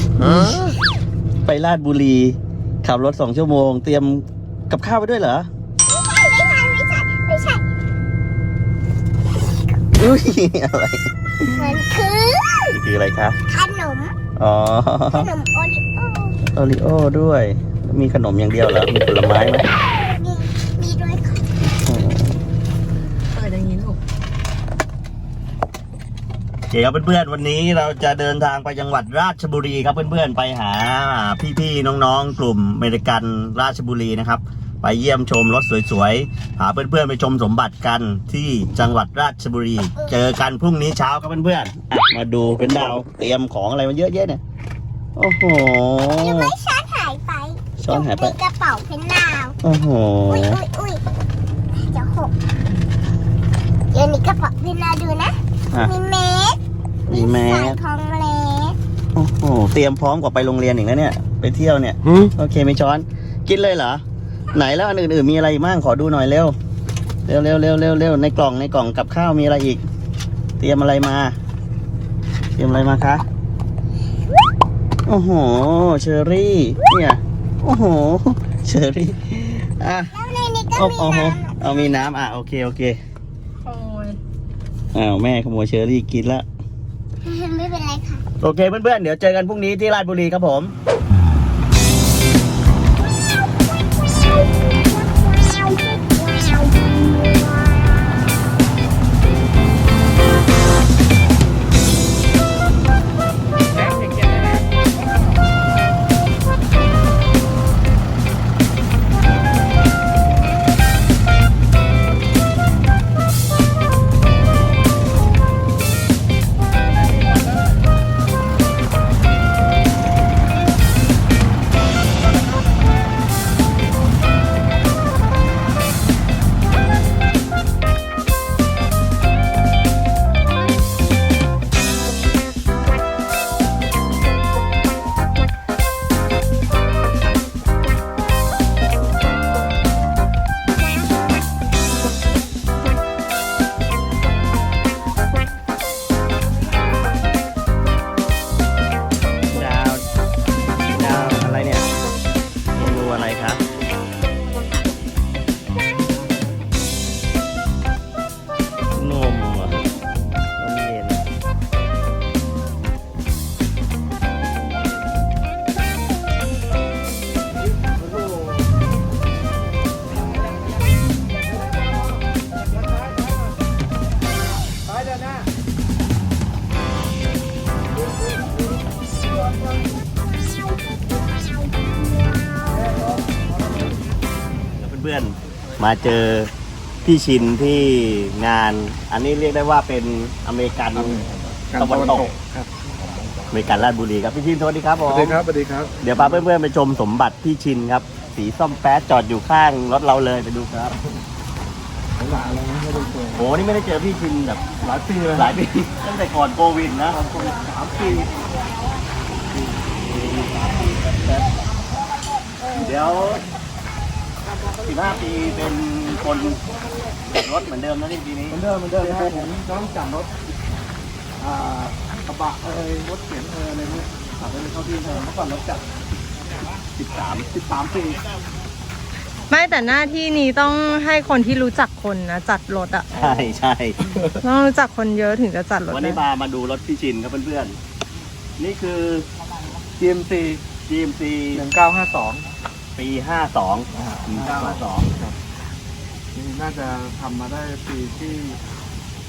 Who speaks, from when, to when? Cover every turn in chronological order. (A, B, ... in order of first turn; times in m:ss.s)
0:00.3-0:00.6 A
0:01.5-0:05.5 A
0:05.8-0:07.6 B
0:10.0-0:11.0 A
0:11.6-0:12.8 B
0:12.7-0:13.4 A
0:13.5-0:14.2 B
0:14.4-0:15.3 A
0:15.1-0:16.4 B
0:16.5-0:19.7 A
0:19.9-0:21.5 B
0:21.9-0:22.3 A
0:26.7-0:44.4 A
0:40.0-0:40.3 B
0:45.2-0:46.4 A
0:46.2-0:49.6 B
0:47.8-0:48.3 A
0:49.6-0:50.5 A
0:50.3-0:51.0 B
0:51.8-0:52.3 B
0:53.9-0:58.8 B
0:57.3-0:57.7 A
0:59.2-1:04.0 A
1:04.5-1:06.5 A
1:07.3-1:09.8 A
1:10.6-1:11.3 A
1:12.6-1:13.2 A
1:15.1-1:20.1 A
1:20.1-1:22.0 B
1:20.8-1:23.0 A
1:23.7-1:24.2 C
1:25.0-1:26.4 A
1:27.2-1:28.2 B
1:28.4-1:30.7 A
1:35.2-1:36.0 B
2:29.5-2:30.0 A
2:30.9-2:31.8 A
2:32.8-2:33.6 A
2:39.0-2:39.8 A
2:40.6-2:41.2 A
3:04.8-3:06.5 A
3:07.0-3:11.2 A
3:10.9-3:12.7 D
3:11.8-3:12.3 A
3:13.5-3:15.4 A
3:15.1-3:16.4 D
3:16.0-3:21.0 A
3:22.2-3:23.4 D
3:23.4-3:27.2 A
3:27.1-3:28.3 D
3:30.0-3:31.5 A
3:32.7-3:33.4 A
3:34.8-3:36.6 A
3:37.3-3:39.2 A
3:38.5-3:40.3 D
3:41.4-3:45.8 D
3:47.0-3:47.4 A
3:47.4-3:48.2 D
3:49.5-3:53.2 C
3:53.2-3:54.0 A
3:53.2-3:53.5 D
3:54.0-3:54.4 D
3:54.4-3:56.2 C
3:55.9-3:57.8 A
3:58.6-3:59.3 A
4:00.0-4:00.7 D
4:00.9-4:01.6 A
4:01.5-4:02.5 D
4:03.0-4:05.1 A
4:04.0-4:05.4 D
4:06.4-4:08.6 D